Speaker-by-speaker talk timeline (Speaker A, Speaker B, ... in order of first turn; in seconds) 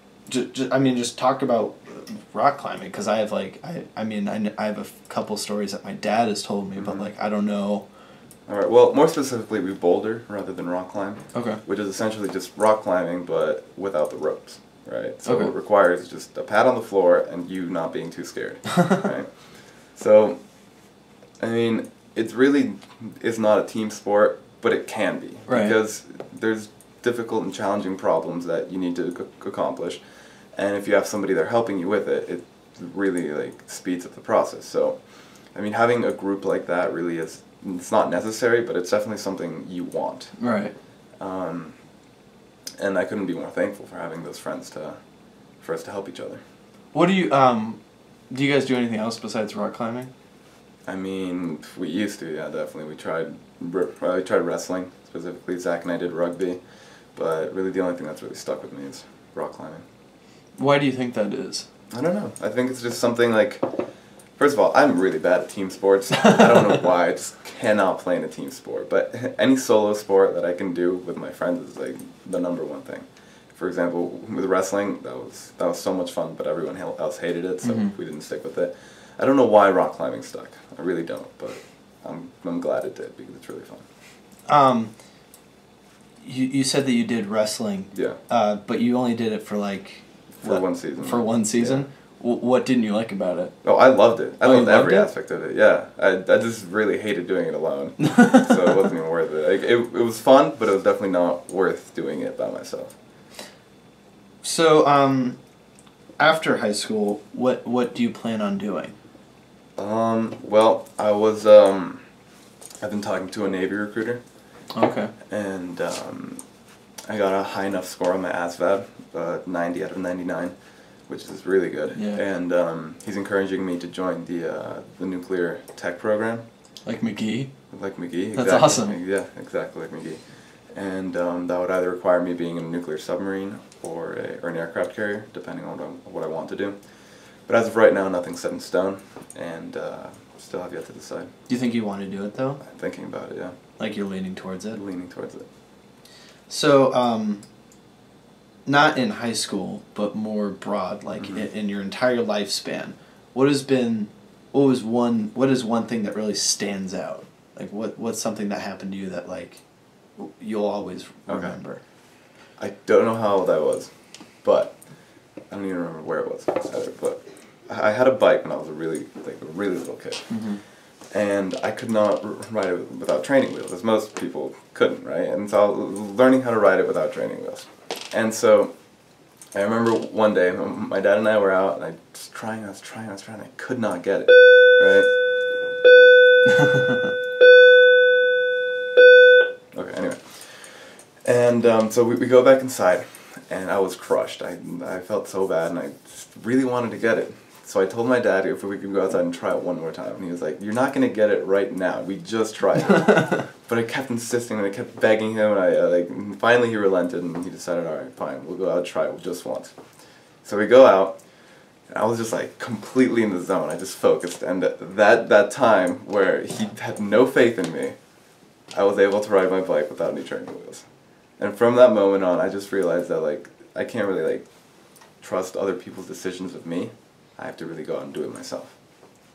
Speaker A: 0.3-7.8, 11.3-11.6, 15.2-15.5, 25.5-25.7, 40.4-40.7, 46.9-50.1, 60.6-61.7, 77.6-77.9, 84.5-84.9, 86.2-93.5, 94.4-95.1, 98.0-98.5, 104.4-105.4, 106.2-109.0, 114.7-115.1, 121.9-122.2, 126.8-127.5, 128.3-129.0, 141.5-142.6, 143.8-144.8, 146.5-147.4, 148.7-159.6, 160.2-161.8, 170.3-170.6
Speaker B: 6.8-7.1, 8.5-20.4, 21.4-30.0, 30.5-40.4, 41.2-41.8, 42.8-45.0, 45.6-46.4, 50.9-56.6, 57.1-59.8, 61.9-63.6, 64.3-83.8, 87.9-88.2, 90.4-91.8, 93.6-103.0, 109.8-112.0, 112.8-114.2, 115.3-116.4, 117.1-120.5, 121.1-126.4, 127.7-136.9, 137.4-141.3, 142.6-143.5, 144.7-145.4, 161.3-161.6, 162.6-164.8, 165.5-170.4, 171.1-178.8, 179.5-185.1, 189.7-209.7, 210.4-211.2, 211.9-217.9, 218.7-220.8, 221.4-224.5, 225.2-228.8